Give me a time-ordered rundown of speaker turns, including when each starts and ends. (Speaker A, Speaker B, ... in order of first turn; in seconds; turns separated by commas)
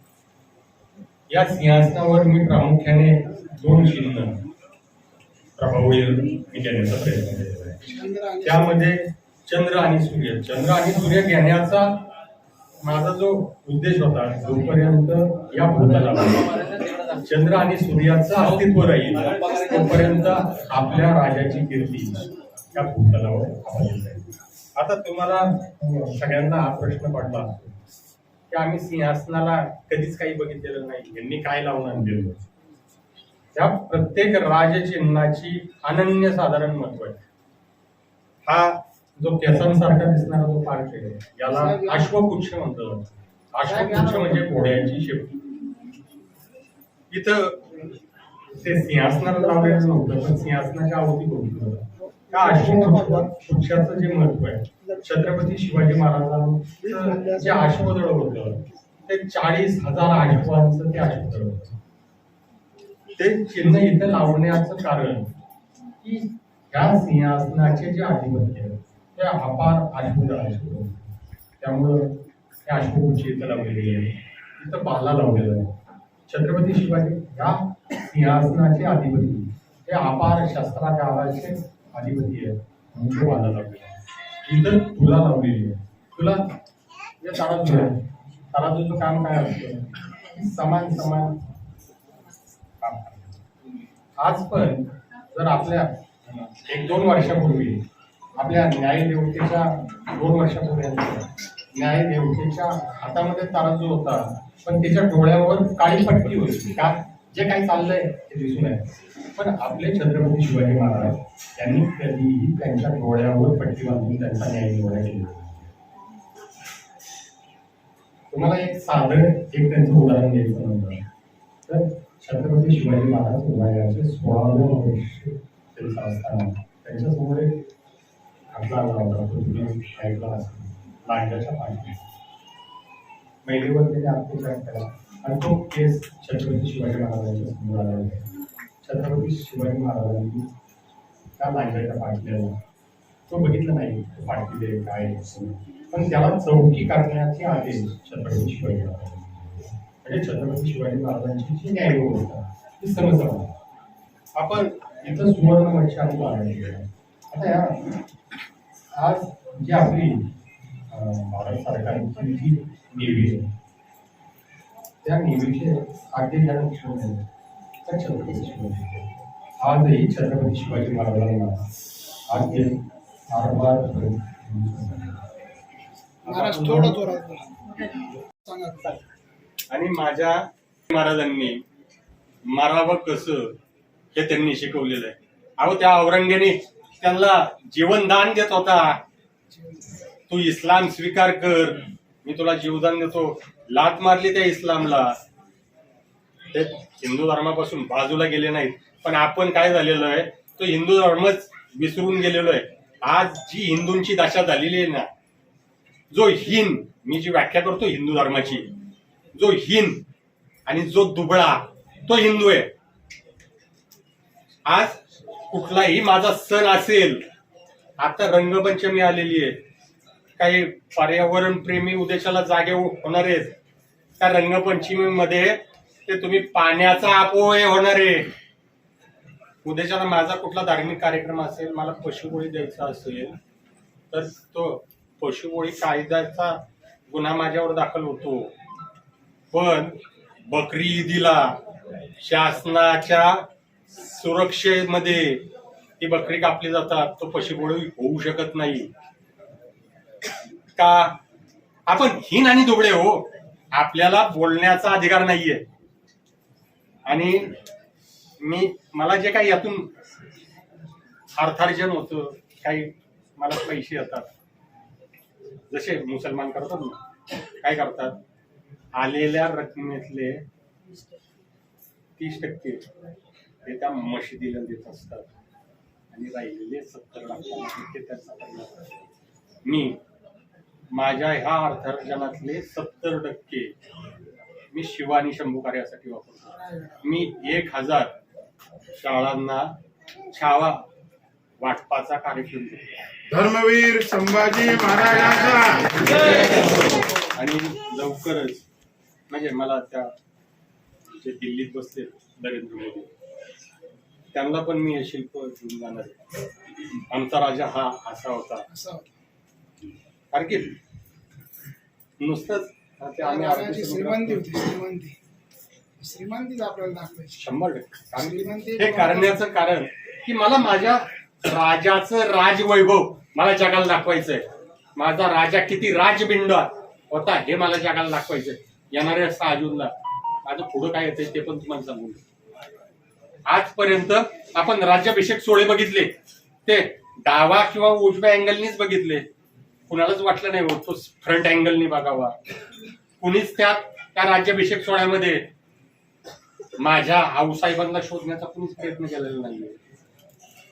Speaker A: 1.3-4.4, Speaker A: 5.5-7.9, Speaker B: 7.8-8.7, Speaker A: 8.4-12.0, Speaker A: 12.8-27.8, Speaker A: 28.5-32.5, Speaker A: 33.5-37.2, Speaker A: 38.4-45.4, Speaker B: 41.5-42.1, Speaker B: 43.6-44.5, Speaker A: 47.1-47.6, Speaker A: 48.5-61.8, Speaker B: 52.1-53.3, Speaker B: 56.8-57.7, Speaker A: 63.1-65.3, Speaker A: 66.0-71.0, Speaker A: 71.6-75.7, Speaker A: 76.3-86.5, Speaker A: 87.2-91.4, Speaker A: 92.8-93.4, Speaker A: 94.2-97.8, Speaker A: 98.3-115.7, Speaker A: 118.3-121.0, Speaker A: 121.7-127.6, Speaker A: 128.5-132.1, Speaker A: 133.4-138.3, Speaker A: 138.8-140.5, Speaker A: 141.4-142.6, Speaker A: 143.3-153.5, Speaker A: 154.3-157.9, Speaker A: 158.9-160.3, Speaker A: 160.9-163.5, Speaker A: 165.0-167.2, Speaker A: 167.8-171.6, Speaker A: 172.3-175.2, Speaker B: 176.2-177.6, Speaker A: 176.2-177.0, Speaker B: 178.4-179.0, Speaker A: 179.7-181.6, Speaker A: 182.5-183.6, Speaker A: 184.1-189.0, Speaker B: 189.5-189.8, Speaker A: 190.3-195.2, Speaker A: 196.5-205.1, Speaker A: 206.1-208.8, Speaker A: 209.3-210.0, Speaker A: 210.7-212.7, Speaker A: 214.7-217.2, Speaker A: 218.0-219.6, Speaker A: 220.4-223.6, Speaker A: 224.2-228.3, Speaker A: 229.6-233.4, Speaker A: 234.1-238.5, Speaker A: 239.5-241.6, Speaker A: 242.2-245.5, Speaker A: 246.0-248.9, Speaker A: 250.7-251.2, Speaker A: 251.8-255.7, Speaker A: 257.1-257.5, Speaker A: 258.4-259.9, Speaker A: 261.4-264.3, Speaker A: 265.7-267.0, Speaker A: 267.6-268.2, Speaker A: 268.9-270.4, Speaker A: 272.2-272.9, Speaker A: 273.6-275.3, Speaker A: 276.1-279.0, Speaker A: 279.6-280.0, Speaker A: 280.9-283.7, Speaker A: 284.7-288.1, Speaker A: 288.9-289.8, Speaker A: 290.3-290.8, Speaker A: 291.6-293.0, Speaker C: 293.3-296.1, Speaker A: 297.2-298.6, Speaker A: 299.3-300.1, Speaker A: 301.1-303.1, Speaker A: 304.3-306.2, Speaker A: 307.1-308.6, Speaker B: 308.7-309.1, Speaker A: 310.3-310.7, Speaker A: 312.2-314.5, Speaker B: 313.2-315.1, Speaker B: 316.0-317.4, Speaker A: 317.3-329.9, Speaker B: 318.1-319.4, Speaker A: 330.4-332.2, Speaker A: 333.5-336.1, Speaker A: 336.6-339.3, Speaker A: 339.9-342.4, Speaker A: 343.2-345.4, Speaker A: 346.8-349.8